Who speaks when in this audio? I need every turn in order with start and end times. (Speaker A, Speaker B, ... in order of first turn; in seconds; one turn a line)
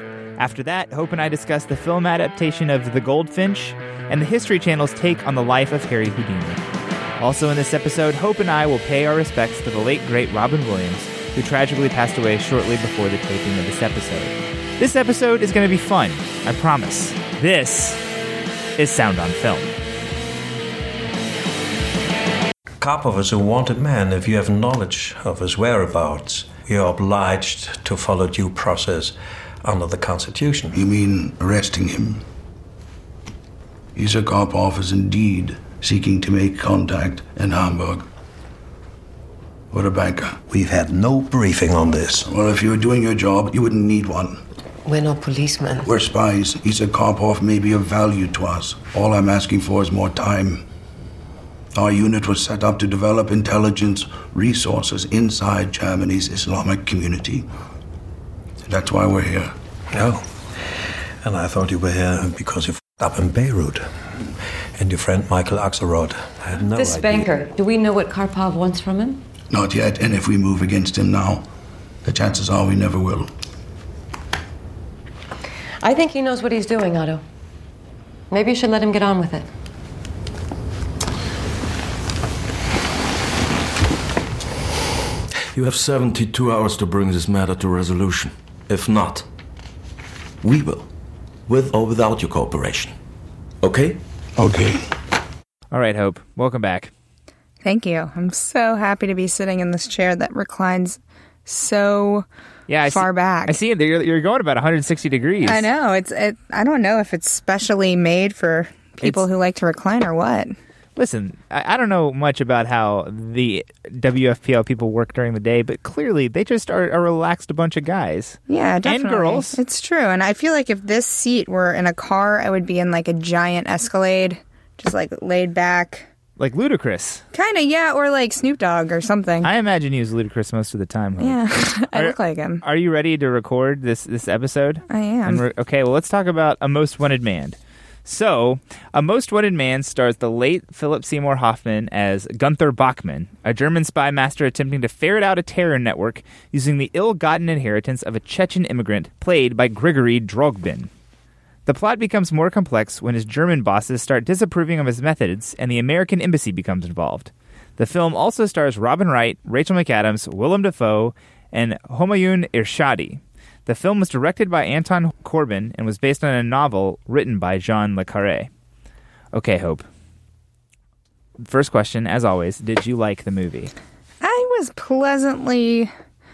Speaker A: 0.4-6.6
Speaker A: 7.2-18.0
Speaker A: 18.8-19.7
Speaker B: 22.8-30.8
Speaker C: 30.7-32.2
Speaker C: 33.9-38.0
Speaker C: 39.7-40.4
Speaker B: 40.5-42.3
Speaker C: 42.2-44.4
Speaker C: 45.8-50.6
Speaker C: 51.7-57.5
Speaker C: 58.6-59.5
Speaker B: 59.9-60.2
Speaker B: 61.2-63.9
Speaker B: 64.8-67.3
Speaker D: 66.7-69.2
Speaker C: 69.5-71.5
Speaker C: 72.0-73.3
Speaker D: 75.8-77.2
Speaker D: 78.3-79.5
Speaker E: 85.5-89.3
Speaker E: 90.4-90.9
Speaker E: 91.5-93.0
Speaker E: 93.6-94.0
Speaker C: 94.4-94.8
Speaker A: 95.7-96.9
Speaker F: 97.6-102.2
Speaker A: 102.7-105.7
Speaker F: 102.9-103.5
Speaker F: 105.4-110.5
Speaker A: 111.0-119.6
Speaker F: 118.5-126.0
Speaker A: 126.4-127.2
Speaker F: 127.3-129.5
Speaker A: 129.4-131.4
Speaker F: 131.2-132.6
Speaker A: 131.9-150.9
Speaker F: 134.9-135.4
Speaker A: 151.7-168.5
Speaker A: 169.3-169.8
Speaker A: 171.4-173.7
Speaker F: 174.2-175.9